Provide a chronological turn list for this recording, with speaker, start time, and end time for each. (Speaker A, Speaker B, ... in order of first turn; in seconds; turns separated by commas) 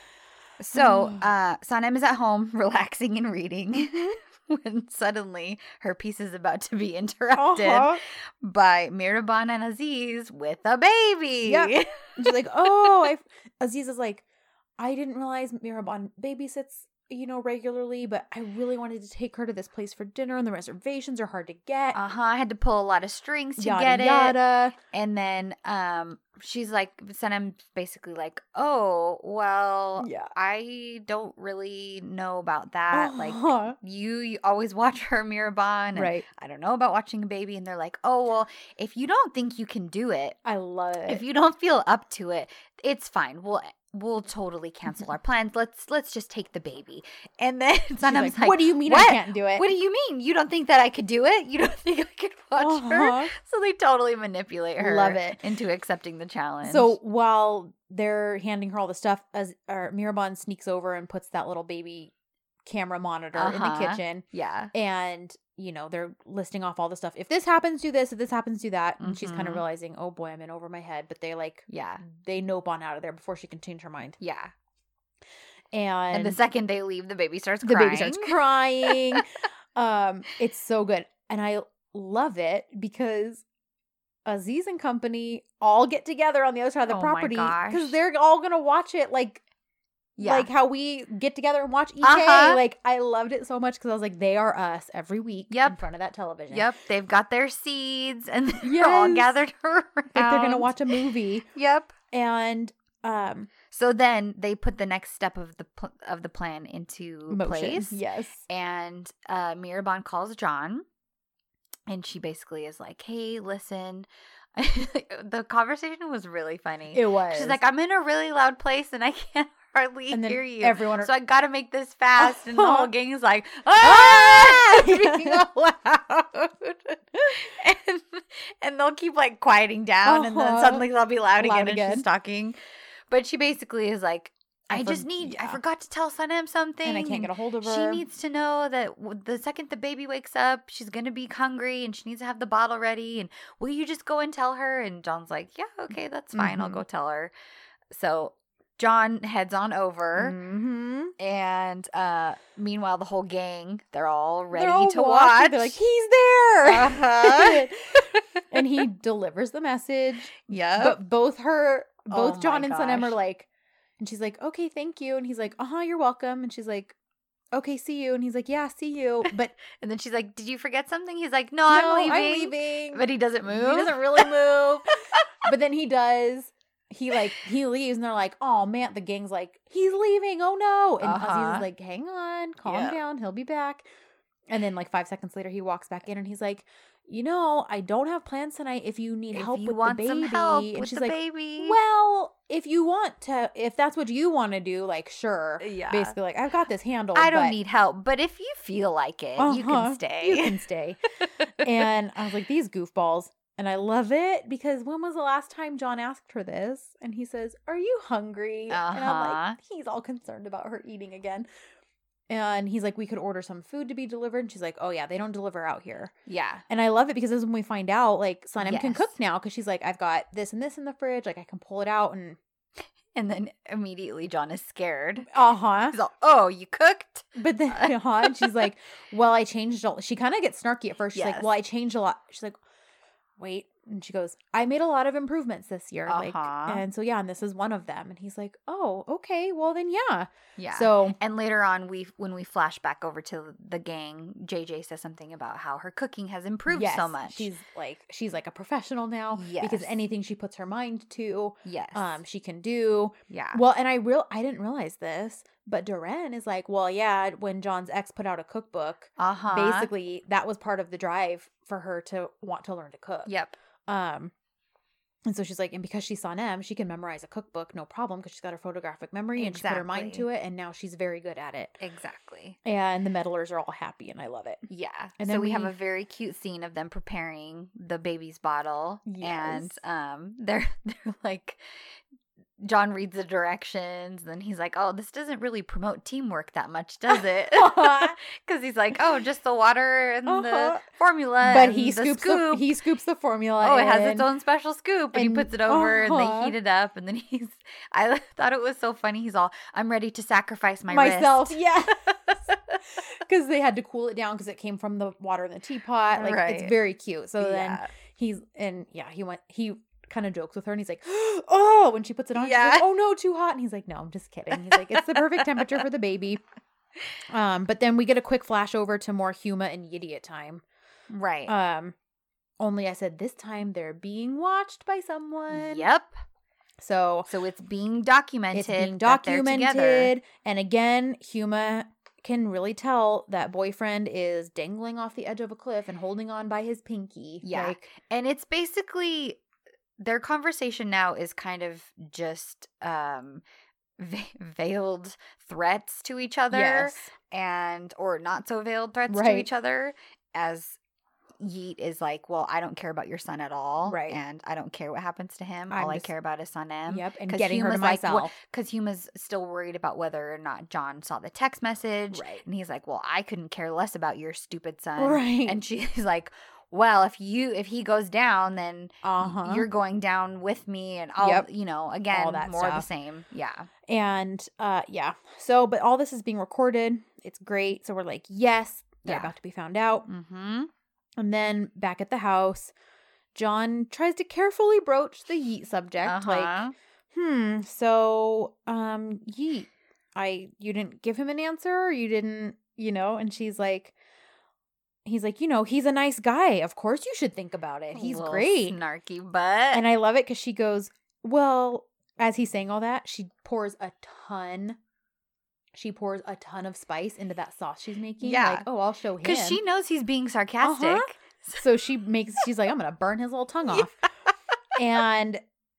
Speaker A: 0.6-12.3, Speaker B: 0.7-1.2, Speaker B: 7.3-8.0, Speaker B: 11.4-14.2, Speaker B: 14.8-22.0, Speaker A: 21.9-24.4, Speaker B: 23.6-24.8, Speaker A: 24.9-40.4, Speaker B: 30.0-30.3, Speaker B: 32.9-33.8, Speaker B: 35.9-36.3, Speaker B: 40.4-41.2, Speaker A: 41.1-56.9, Speaker B: 48.0-49.7, Speaker B: 52.6-53.3, Speaker B: 54.8-55.4, Speaker B: 56.6-62.1, Speaker B: 62.6-74.2, Speaker A: 63.4-64.7, Speaker A: 69.0-69.6, Speaker A: 71.7-72.0, Speaker A: 74.2-74.5, Speaker B: 75.7-76.4, Speaker A: 76.1-79.2, Speaker B: 77.6-83.4, Speaker B: 84.3-89.4, Speaker A: 86.9-88.0, Speaker A: 90.2-90.5, Speaker B: 90.2-96.7, Speaker A: 92.0-92.6, Speaker A: 95.5-95.8, Speaker A: 96.5-100.9, Speaker B: 98.6-99.3, Speaker B: 100.1-101.5, Speaker A: 101.5-101.9, Speaker B: 102.1-103.5, Speaker A: 103.7-110.8, Speaker B: 107.3-108.4, Speaker A: 111.9-132.6, Speaker B: 116.9-117.6, Speaker B: 120.1-121.1, Speaker B: 122.2-122.9, Speaker B: 123.8-125.4, Speaker B: 130.1-130.8, Speaker B: 131.4-132.1, Speaker A: 133.1-147.3, Speaker B: 134.7-135.6, Speaker B: 136.8-138.0, Speaker B: 146.3-146.8, Speaker A: 147.9-150.4, Speaker B: 150.2-151.1, Speaker A: 151.2-155.8, Speaker B: 154.5-163.5, Speaker A: 156.6-158.4, Speaker A: 160.4-161.0, Speaker A: 162.1-163.2, Speaker B: 164.0-166.9, Speaker B: 167.5-169.6, Speaker A: 169.7-175.3, Speaker B: 171.7-174.9, Speaker B: 175.4-183.8, Speaker A: 181.0-181.7, Speaker A: 182.6-183.0, Speaker B: 184.5-197.6, Speaker A: 189.3-191.8, Speaker A: 195.6-196.2, Speaker A: 197.1-200.6, Speaker B: 199.4-201.0, Speaker A: 201.2-201.8, Speaker B: 201.6-211.5, Speaker A: 208.7-209.6, Speaker B: 212.3-216.1, Speaker A: 216.3-216.6, Speaker B: 216.7-222.4, Speaker A: 218.6-219.1, Speaker A: 223.1-225.3, Speaker B: 225.3-225.9, Speaker A: 225.9-228.7, Speaker B: 227.3-232.6, Speaker A: 231.1-231.5, Speaker B: 233.4-241.2, Speaker A: 236.1-236.8, Speaker A: 240.6-247.5, Speaker B: 246.7-263.3, Speaker A: 249.3-249.9, Speaker A: 251.6-252.2, Speaker A: 253.3-253.6, Speaker A: 259.2-259.9, Speaker A: 263.3-263.6, Speaker B: 263.9-264.3, Speaker B: 265.3-271.8, Speaker A: 269.4-270.3, Speaker A: 271.8-272.6, Speaker B: 272.6-274.6, Speaker A: 274.7-281.6, Speaker B: 275.2-275.7, Speaker B: 279.1-279.8, Speaker A: 282.6-292.7, Speaker B: 287.1-288.2, Speaker B: 290.3-290.8, Speaker B: 291.4-294.3, Speaker A: 293.6-302.8, Speaker B: 295.1-296.6, Speaker B: 300.9-302.1, Speaker B: 303.1-316.4, Speaker A: 306.1-306.8, Speaker A: 307.4-307.9, Speaker A: 312.4-312.9, Speaker A: 314.5-315.8, Speaker B: 317.3-320.6, Speaker A: 321.1-321.5, Speaker B: 321.5-321.9, Speaker B: 322.6-325.9, Speaker A: 325.5-326.1, Speaker B: 326.8-327.3, Speaker A: 327.3-330.1, Speaker B: 328.5-337.9, Speaker A: 337.4-339.4, Speaker A: 340.0-343.4, Speaker A: 344.0-350.8, Speaker B: 346.5-347.1, Speaker B: 349.1-349.5, Speaker A: 351.4-373.7, Speaker B: 353.9-354.2, Speaker B: 355.7-356.1, Speaker B: 356.9-358.3, Speaker B: 362.1-362.4, Speaker B: 365.0-365.6, Speaker B: 369.0-369.7, Speaker B: 371.2-371.5, Speaker B: 372.1-372.9, Speaker B: 373.9-380.1, Speaker A: 379.1-379.3, Speaker A: 380.1-380.7, Speaker B: 381.2-382.7, Speaker B: 383.4-386.6, Speaker A: 386.0-386.7, Speaker B: 387.1-393.9, Speaker B: 395.1-398.8, Speaker A: 397.9-399.9, Speaker B: 399.7-404.8, Speaker B: 405.7-409.6, Speaker A: 408.2-408.6, Speaker A: 409.2-411.6, Speaker B: 410.6-414.0, Speaker B: 414.7-415.4